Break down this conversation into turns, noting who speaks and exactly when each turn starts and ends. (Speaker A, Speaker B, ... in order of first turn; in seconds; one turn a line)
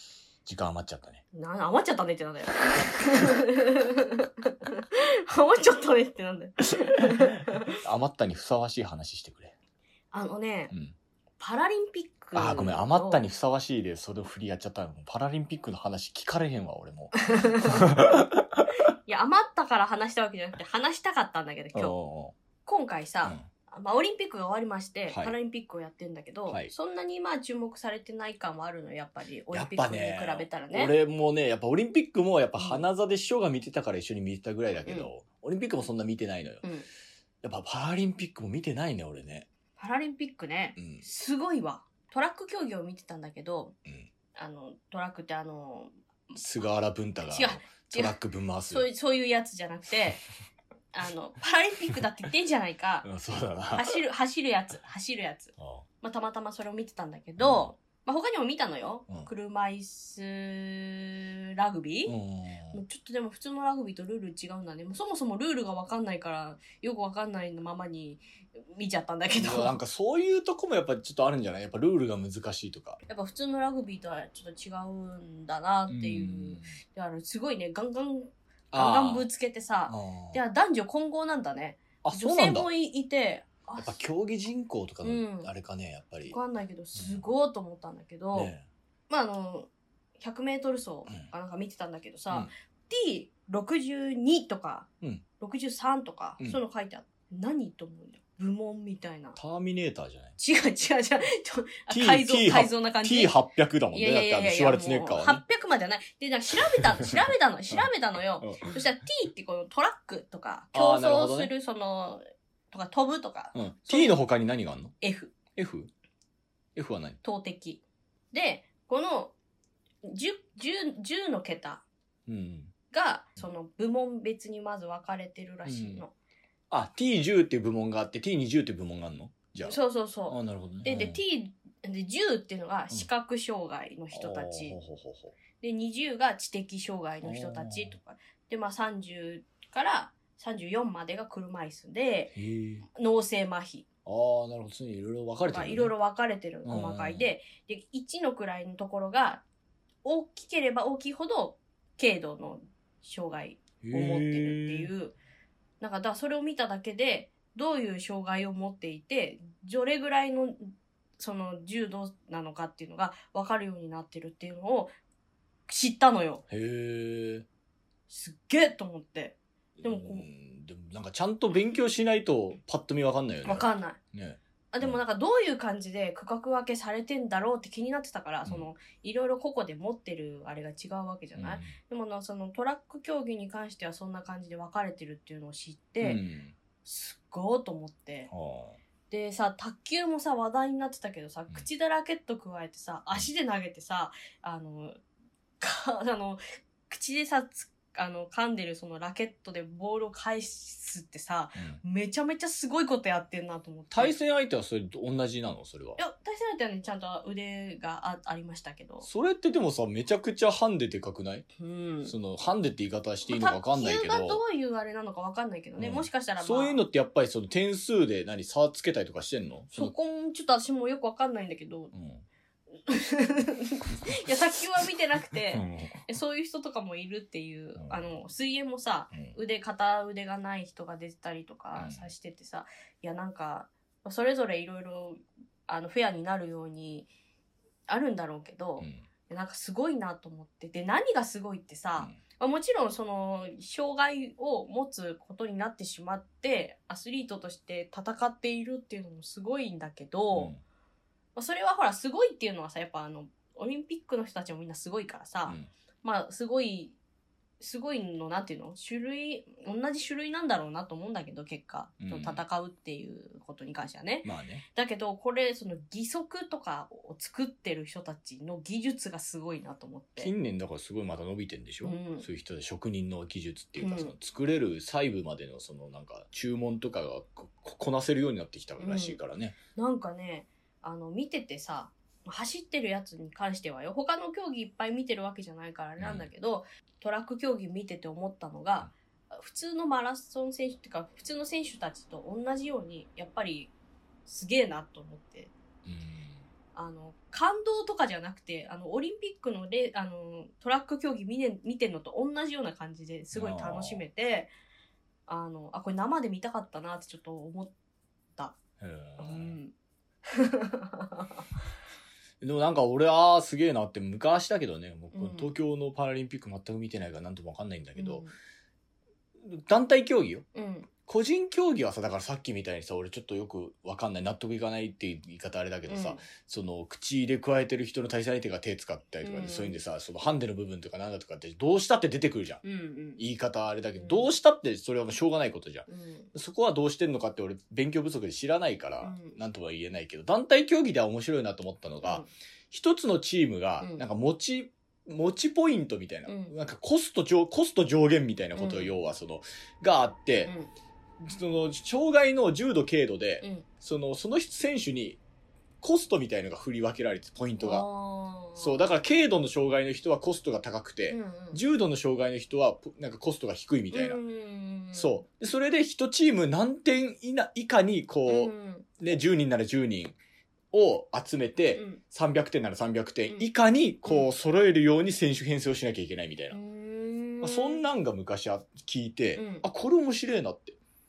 Speaker A: 0.5-1.2
Speaker B: 1.3-7.7
Speaker A: 7.8-9.5
Speaker B: 10.1-10.7
Speaker B: 11.4-13.2
Speaker A: 12.3-18.6
Speaker B: 17.2-17.9
Speaker B: 19.1-21.9
Speaker A: 21.7-22.3
Speaker B: 22.6-30.9
Speaker A: 25.1-25.3
Speaker A: 29.5-36.6
Speaker B: 32.6-32.8
Speaker A: 37.4-39.5
Speaker B: 39.8-43.7
Speaker A: 40.8-41.0
Speaker B: 44.3-45.9
Speaker A: 46.3-48.9
Speaker B: 47.3-48.2
Speaker B: 48.7-50.2
Speaker B: 50.9-53.1
Speaker A: 53.0-54.0
Speaker B: 53.7-62.1
Speaker A: 55.6-55.8
Speaker A: 57.4-57.7
Speaker A: 62.1-62.8
Speaker B: 62.7-69.8
Speaker A: 69.4-73.0
Speaker B: 73.1-84.0
Speaker A: 75.9-76.7
Speaker A: 78.7-79.3
Speaker A: 79.9-80.4
Speaker A: 82.0-82.7
Speaker A: 83.8-86.4
Speaker B: 85.0-85.5
Speaker B: 86.3-88.5
Speaker A: 86.9-87.2
Speaker A: 88.3-88.7
Speaker B: 89.1-94.9
Speaker B: 95.4-99.4
Speaker A: 99.3-100.3
Speaker B: 100.4-103.3
Speaker A: 101.9-105.4
Speaker B: 103.9-114.2
Speaker A: 108.4-108.7
Speaker A: 110.7-111.5
Speaker A: 113.5-115.0
Speaker B: 115.0-115.3
Speaker A: 115.5-115.9
Speaker A: 116.7-117.2
Speaker B: 117.2-119.3
Speaker B: 120.0-121.8
Speaker A: 122.3-122.7
Speaker B: 122.9-126.1
Speaker A: 125.7-126.0
Speaker A: 126.7-131.2
Speaker B: 129.6-134.8
Speaker A: 134.1-135.3
Speaker B: 135.6-142.3
Speaker A: 137.2-138.0
Speaker A: 142.3-142.8
Speaker B: 142.9-143.8
Speaker A: 144.1-145.9
Speaker B: 145.5-149.4
Speaker A: 146.6-147.3
Speaker B: 150.0-155.2
Speaker A: 153.8-154.9
Speaker B: 155.8-164.9
Speaker B: 165.7-166.4
Speaker A: 166.5-167.4
Speaker B: 168.1-170.3
Speaker A: 169.8-175.0
Speaker B: 173.4-174.0
Speaker B: 174.7-186.2
Speaker A: 181.3-181.7
Speaker A: 186.0-186.6
Speaker B: 186.8-188.3
Speaker A: 188.3-188.8
Speaker B: 189.1-195.0
Speaker B: 195.6-204.2
Speaker A: 201.6-201.8
Speaker A: 203.9-206.0
Speaker B: 206.0-209.1
Speaker A: 209.0-211.5
Speaker B: 211.6-212.1
Speaker A: 212.0-214.4
Speaker B: 213.3-216.8
Speaker A: 215.8-219.9
Speaker B: 219.7-221.9
Speaker A: 221.9-222.2
Speaker B: 222.9-237.1
Speaker A: 225.5-226.0
Speaker A: 227.8-228.0
Speaker A: 231.8-232.1
Speaker B: 237.9-250.5
Speaker A: 250.3-250.6
Speaker B: 251.3-256.9
Speaker B: 257.6-270.3
Speaker A: 262.0-262.4
Speaker A: 264.2-264.6
Speaker A: 270.2-279.6
Speaker B: 271.8-272.2
Speaker B: 273.8-274.1
Speaker B: 278.8-279.2
Speaker B: 279.8-293.7
Speaker A: 286.0-286.3
Speaker B: 294.2-295.5
Speaker A: 295.8-296.4
Speaker B: 296.7-304.5
Speaker A: 303.3-304.0
Speaker B: 305.3-307.7
Speaker A: 308.8-309.6
Speaker B: 309.2-309.7
Speaker B: 310.3-311.4
Speaker A: 312.4-318.2
Speaker B: 315.1-315.5
Speaker B: 317.9-318.3
Speaker A: 319.4-320.4
Speaker B: 320.5-320.9
Speaker A: 321.1-332.6
Speaker B: 325.9-326.3
Speaker B: 329.2-329.8
Speaker B: 332.6-333.2
Speaker A: 333.2-350.5
Speaker B: 334.0-334.3
Speaker B: 335.9-336.3
Speaker B: 339.0-339.4
Speaker B: 342.0-342.3
Speaker B: 346.3-346.5
Speaker B: 348.6-348.9
Speaker A: 351.2-355.2
Speaker A: 355.8-357.9
Speaker B: 357.6-358.9
Speaker A: 358.6-364.2
Speaker B: 361.1-361.6
Speaker B: 363.9-365.2
Speaker A: 364.9-370.2
Speaker B: 368.3-369.0
Speaker A: 370.7-376.6
Speaker B: 371.7-372.0
Speaker B: 374.0-374.3
Speaker B: 376.5-377.8
Speaker A: 377.4-380.8
Speaker B: 379.4-379.7